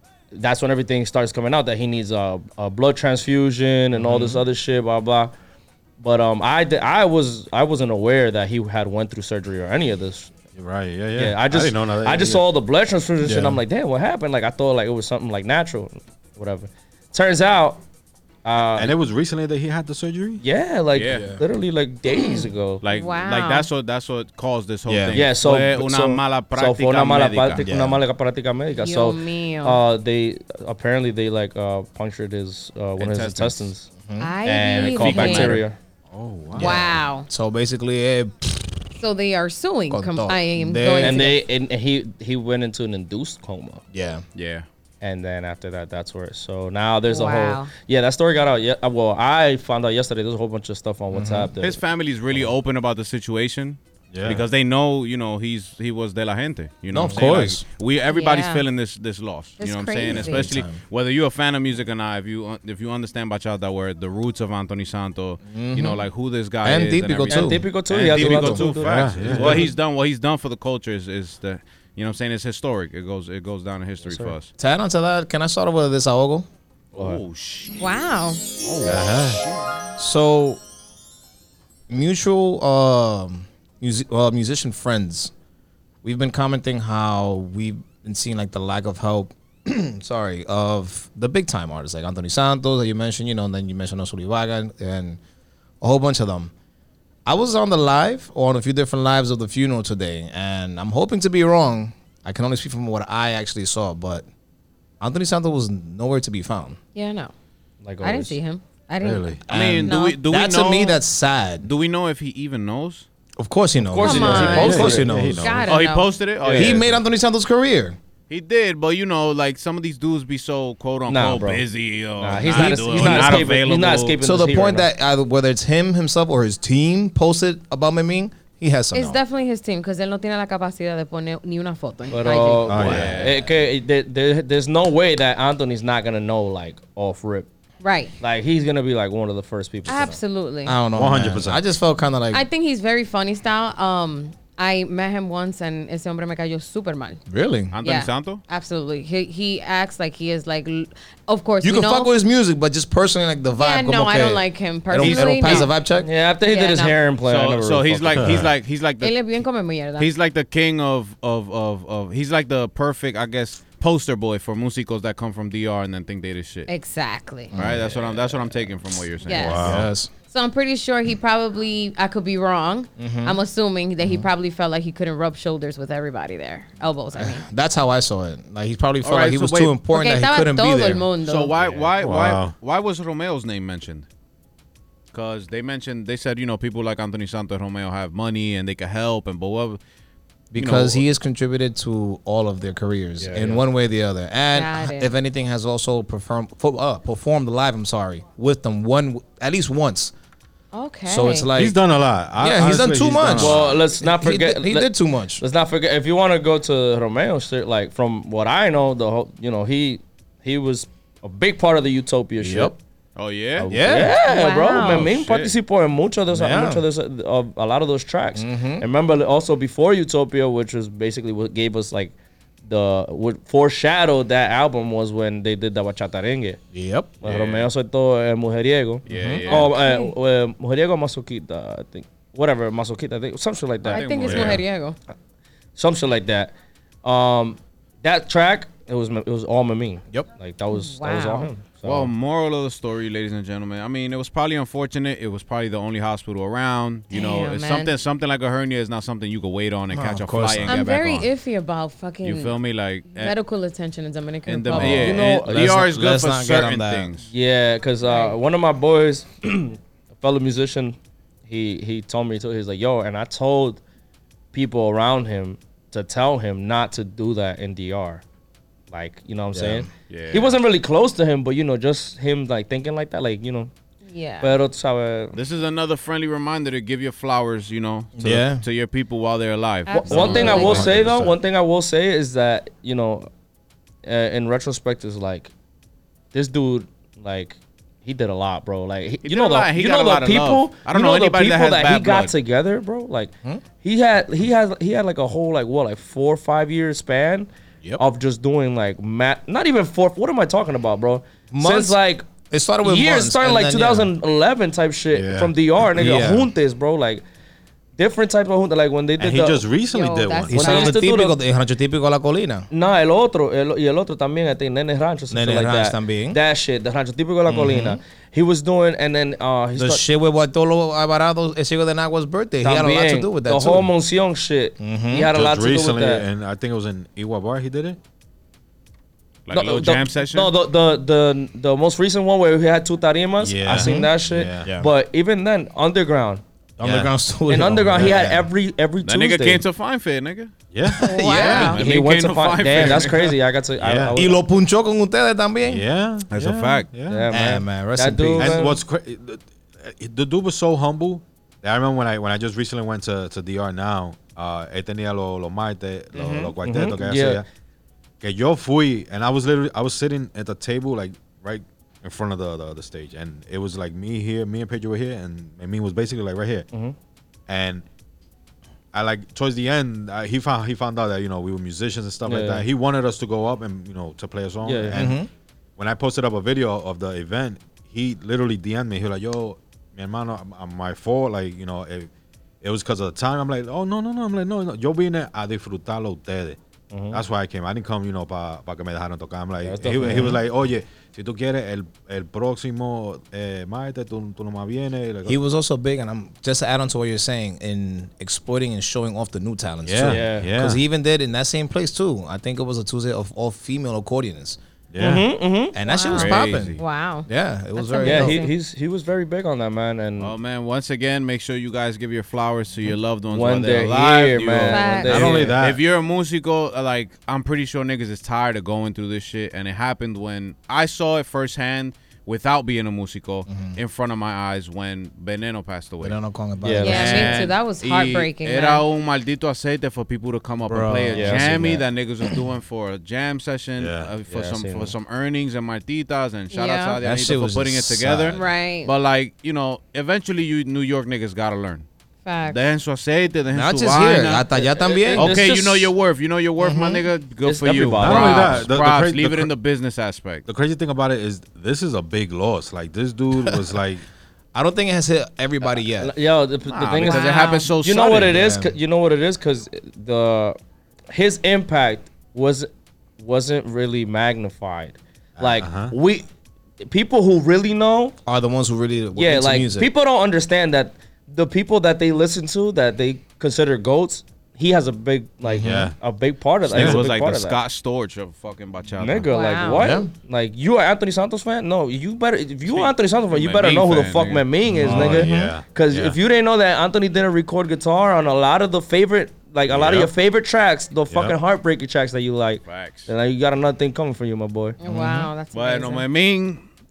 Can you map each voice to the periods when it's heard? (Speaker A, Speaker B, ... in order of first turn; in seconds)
Speaker A: 0.3-5.3, 6.0-10.3, 11.2-17.8, 18.4-18.9, 20.4-22.8, 25.1-33.9, 34.4-35.8, 41.0-43.8, 45.0-51.8, 67.3-69.6, 74.0-74.3, 76.9-77.2, 107.8-108.4, 113.9-115.2, 116.4-116.8, 121.1-121.6, 122.2-124.9, 132.1-137.5, 138.2-140.2, 154.9-158.2, 193.2-193.6, 203.3-212.8, 213.6-222.1, 222.7-226.6, 227.2-234.1, 235.8-242.1, 254.9-255.8, 257.3-263.8, 264.5-268.2, 268.9-273.7, 274.4-275.4, 280.1-283.3, 284.0-285.5, 286.3-293.3, 293.8-302.2, 302.8-307.2, 308.0-309.6, 310.6-311.4, 312.7-320.1, 322.6-326.2, 329.5-336.4, 337.5-339.6, 341.6-344.4, 347.1-348.8, 356.1-357.4, 372.2-372.6, 374.6-375.0, 386.9-387.2, 389.6-390.4, 400.0-400.5, 405.0-405.7, 408.0-410.3, 413.3-415.6, 426.6-427.3, 431.1-431.8, 434.3-434.9, 444.8-445.9, 447.4-448.7, 455.9-460.6, 461.1-466.2, 466.8-468.1, 469.1-477.6, 479.0-494.8
Speaker B: 10.6-12.4, 13.2-13.6, 18.8-20.4, 36.1-36.9, 54.1-54.4, 68.8-69.7, 78.8-79.4, 109.0-109.4, 114.1-115.7, 132.7-133.3, 140.9-141.6, 158.2-158.5, 169.3-169.9, 182.0-182.5, 201.5-203.8, 234.3-234.6, 280.1-281.3, 305.1-305.5, 309.2-310.9, 325.3-328.0, 333.4-334.7, 340.7-341.7, 343.8-344.2, 345.6-347.2, 348.4-357.4, 358.2-366.7, 367.5-367.8, 368.9-375.2, 375.8-382.1, 382.6-386.6, 387.1-395.4, 399.8-400.8, 404.9-405.2, 415.1-415.8, 433.8-434.1, 448.0-449.5, 450.5-454.0, 465.4-465.9, 475.5-475.9, 476.7-477.0, 484.8-486.2, 489.7-490.1, 491.1-491.4
Speaker C: 20.9-21.2, 22.8-27.6, 33.0-33.7, 44.3-44.6, 51.6-74.5, 76.9-78.0, 78.6-79.7, 109.5-111.0, 111.6-113.1, 115.7-117.0, 118.3-124.2, 132.7-133.3, 147.7-148.4, 157.2-159.1, 159.9-166.7, 167.5-169.7, 179.0-179.8, 181.2-184.1, 185.1-189.8, 190.5-191.0, 213.2-213.7, 214.8-215.5, 227.2-227.7, 229.1-229.7, 233.9-234.6, 241.8-251.3, 252.2-253.3, 254.4-257.3, 270.1-270.5, 275.3-280.9, 289.2-292.3, 329.4-330.5, 339.0-340.5, 341.7-343.4, 346.3-346.9, 406.1-406.8, 410.2-426.2, 426.9-441.9, 442.4-444.5, 445.1-450.4, 456.6-458.4, 476.7-479.3, 482.6-484.4, 492.6-493.1, 495.5-496.6
Speaker D: 21.1-21.4, 24.9-25.2, 27.6-28.0, 34.1-34.4, 34.9-35.6, 36.5-38.9, 39.9-41.2, 43.9-44.2, 51.1-51.5, 56.9-57.6, 60.1-60.8, 65.5-66.0, 66.6-69.7, 74.6-76.5, 80.0-80.6, 81.9-85.3, 86.0-95.2, 95.8-96.5, 97.2-104.3, 105.0-106.8, 109.5-111.7, 113.4-115.7, 116.5-118.0, 122.5-123.4, 124.2-129.2, 140.6-142.4, 147.3-147.8, 151.6-156.1, 167.5-167.9, 169.6-170.1, 173.0-173.4, 174.0-174.3, 177.1-181.0, 190.5-200.1, 201.1-201.8, 202.4-205.4, 212.4-212.7, 213.7-214.2, 216.3-216.8, 218.3-218.8, 226.7-227.1, 229.1-229.5, 249.9-250.8, 254.7-257.1, 269.5-269.9, 278.2-278.6, 280.6-281.2, 301.5-302.0, 302.5-304.1, 305.9-306.5, 310.5-312.7, 315.3-316.4, 317.5-318.0, 319.7-323.9, 324.8-325.3, 333.7-334.1, 334.6-334.9, 336.8-338.5, 340.9-341.8, 344.1-345.8, 347.3-348.6, 374.9-375.3, 390.0-390.4, 395.2-404.6, 405.7-406.8, 407.3-408.4, 423.5-423.8, 426.0-427.4, 430.6-431.7, 437.0-438.4, 443.5-445.3, 446.6-447.0, 454.5-456.1, 458.3-458.8, 468.2-469.9, 475.4-475.9, 479.7-480.1, 484.7-485.5, 494.9-495.3
Speaker E: 22.2-23.7, 28.8-29.8, 34.2-35.6, 36.5-37.3, 39.0-41.4, 47.1-47.7, 58.1-58.6, 59.6-60.5, 77.8-78.4, 106.9-107.3, 108.0-110.2, 113.9-116.2, 128.9-132.9, 137.8-138.1, 139.9-140.8, 142.3-147.2, 147.8-152.1, 153.6-155.7, 156.4-156.9, 159.0-160.1, 166.7-167.5, 169.2-169.6, 170.3-177.4, 179.9-181.5, 194.5-195.1, 200.7-201.5, 214.2-215.1, 229.5-230.1, 233.9-234.9, 240.7-241.5, 247.1-247.9, 250.7-252.6, 253.1-255.4, 258.0-258.3, 274.1-274.5, 279.9-280.9, 309.9-311.0, 341.0-341.8, 405.9-407.3, 407.8-408.5, 414.7-415.4, 426.8-428.8, 436.5-437.0, 438.3-438.9, 442.2-442.6, 457.0-457.7, 479.3-480.0, 494.8-496.1